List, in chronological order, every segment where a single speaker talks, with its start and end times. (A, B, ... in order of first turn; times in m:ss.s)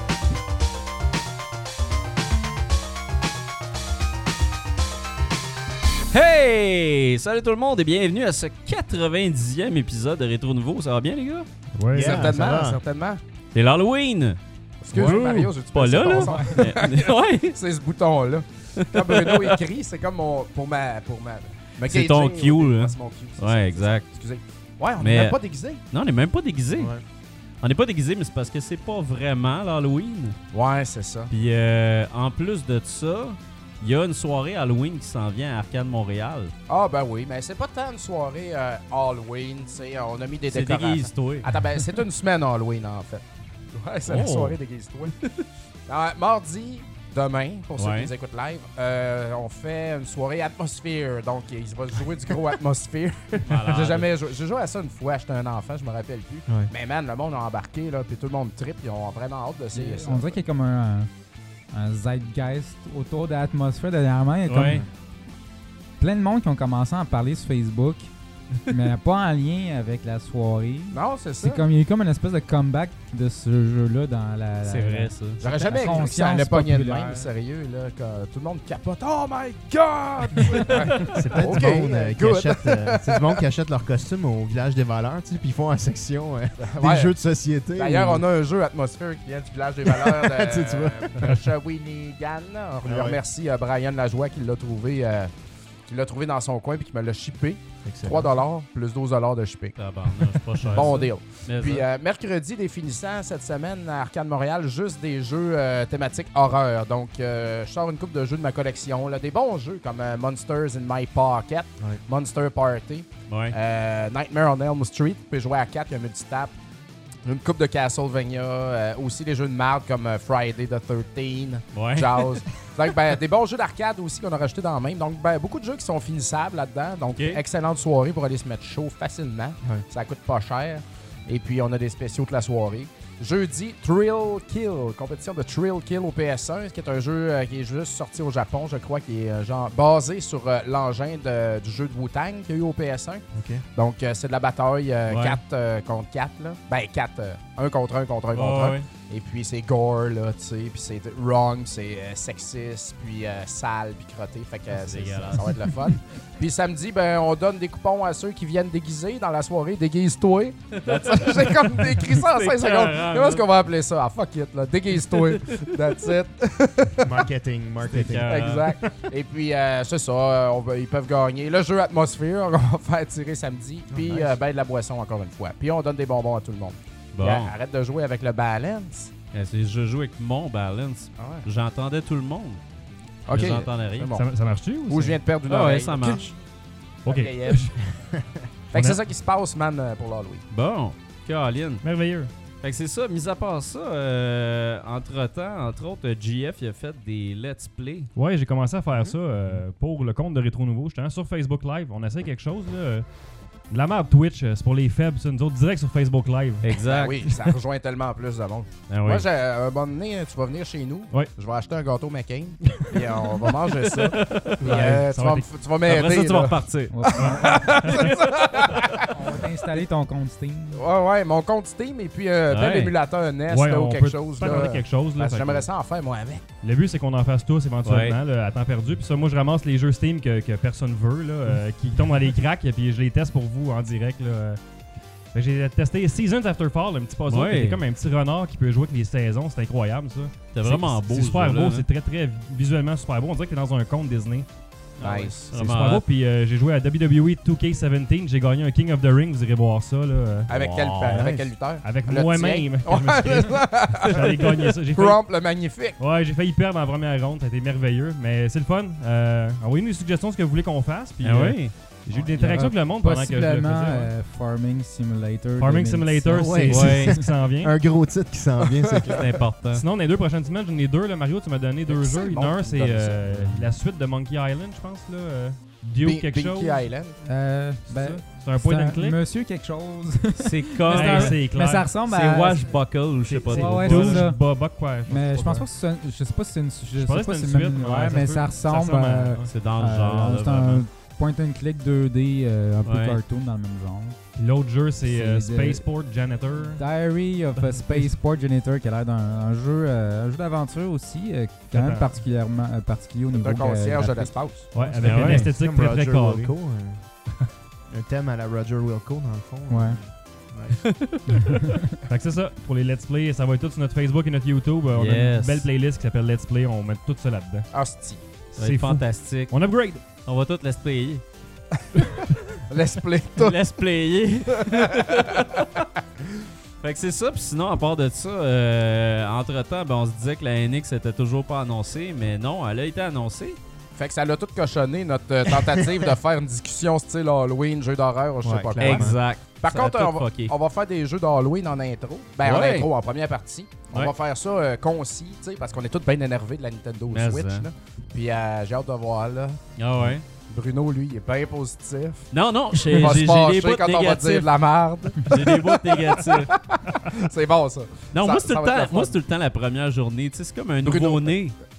0:06.1-0:11.5 A
0:11.8-0:12.3 B
0:11.9-0:12.8 C
0:12.0-0:13.2 D
0:13.5-0:14.4 A
0:14.8-0:25.8 D
0:14.9-0:17.6 A
0:16.1-0:16.6 E
0:18.8-0:19.6 A
0:21.9-0:24.0 A
0:25.0-0:25.4 A
0:25.9-0:26.9 A
0:26.8-0:27.0 C
0:27.6-0:30.4 A
0:30.5-0:31.3 D
0:31.3-0:36.5 A
0:36.7-0:45.2 D
0:40.5-0:42.0 A
0:44.0-0:44.6 A
0:45.9-1:00.4 D
0:47.8-0:48.1 A
0:53.4-0:54.1 A
0:59.7-1:01.1 E
1:01.7-1:04.8 E
1:04.5-1:04.8 A
1:06.0-1:08.1 E
1:08.7-1:17.3 E
1:10.9-1:11.6 D
1:14.6-1:15.4 A
1:15.4-1:23.4 D
1:21.0-1:28.2 C
1:26.6-1:27.1 D
1:27.8-1:35.3 D
1:29.8-1:31.4 C
1:32.8-1:33.2 C
1:35.9-1:56.5 D
1:37.8-1:38.4 C
1:39.8-1:41.8 A
1:40.6-1:40.9 C
1:53.3-1:53.5 A
1:57.2-2:47.2 D
2:01.7-2:02.4 A
2:07.2-2:07.4 A
2:23.3-2:23.6 C
2:25.1-2:25.4 A
2:28.3-2:28.9 A
2:34.7-2:35.9 A
2:40.7-2:43.5 A
2:45.1-2:45.8 A
2:47.0-2:48.3 C
2:47.8-2:48.8 A
2:48.2-2:59.1 D
2:53.9-2:54.4 C
2:57.1-2:57.6 A
2:59.3-3:02.6 A
3:01.2-3:01.5 D
3:03.3-3:04.2 D
3:03.3-3:04.2 A
3:04.2-3:05.2 B
3:04.9-3:06.4 D
3:05.5-3:06.3 A
3:07.0-3:07.8 B
3:07.0-3:07.8 D
3:08.0-3:08.2 C
3:08.7-3:10.4 D
3:08.8-3:09.0 B
3:10.5-3:11.8 A
3:11.8-3:12.3 B
3:12.6-3:18.1 A
3:18.2-3:23.1 B
3:23.7-3:26.8 B
3:26.6-3:27.4 A
3:26.8-3:39.4 D
3:28.9-3:29.2 A
3:33.4-3:35.1 A
3:34.6-3:35.5 B
3:35.8-3:37.2 A
3:36.9-3:38.2 E
3:37.2-3:38.2 B
3:39.0-3:40.8 E
3:40.7-3:46.4 D
3:42.5-3:42.9 A
3:43.5-3:45.7 B
3:46.6-3:54.6 B
3:47.8-3:48.2 A
3:55.3-4:04.5 B
3:57.3-3:57.8 A
4:00.5-4:01.9 A
4:05.0-4:06.0 A
4:05.0-4:05.5 D
4:05.5-4:10.5 B
4:10.5-4:11.3 A
4:10.5-4:16.0 D
4:11.1-4:11.5 C
4:11.8-4:15.4 B
4:16.0-4:24.1 B
4:21.2-4:21.8 A
4:22.3-4:27.2 E
4:25.6-4:27.8 B
4:26.3-4:29.4 C
4:26.7-4:27.2 A
4:28.8-4:29.1 D
4:29.0-4:29.8 A
4:29.7-4:36.9 B
4:31.9-4:33.6 D
4:36.0-4:37.2 D
4:37.2-4:54.2 E
4:37.8-4:39.2 B
4:40.4-4:41.4 A
4:40.9-4:41.9 B
4:42.0-4:44.2 A
4:43.3-4:45.7 B
4:46.9-4:49.5 B
4:49.5-4:50.8 A
4:52.8-4:53.2 A
4:54.4-4:56.8 B
4:55.0-4:55.8 E
4:56.8-5:05.4 E
4:57.7-4:58.0 B
5:01.7-5:02.2 B
5:03.4-5:04.7 D
5:04.7-5:06.5 B
5:05.0-5:07.0 C
5:05.0-5:05.5 A
5:07.9-5:10.8 C
5:09.7-5:10.0 E
5:10.9-5:11.3 A
5:11.5-5:17.7 B
5:15.0-5:15.7 A
5:17.7-5:18.2 D
5:18.6-5:20.0 B
5:18.6-5:19.5 A
5:20.1-5:21.2 A
5:22.6-5:23.6 D
5:23.4-5:25.8 A
5:24.6-5:25.6 D
5:26.8-5:33.6 A
5:33.9-5:49.6 D
5:38.4-5:39.2 C
5:38.8-5:40.5 A
5:42.4-5:42.9 A
5:47.1-5:47.7 A
5:49.8-5:50.2 A
5:50.5-5:59.1 D
5:52.3-5:54.5 A
5:55.2-5:56.5 A
5:58.1-6:01.5 A
6:00.8-6:01.3 D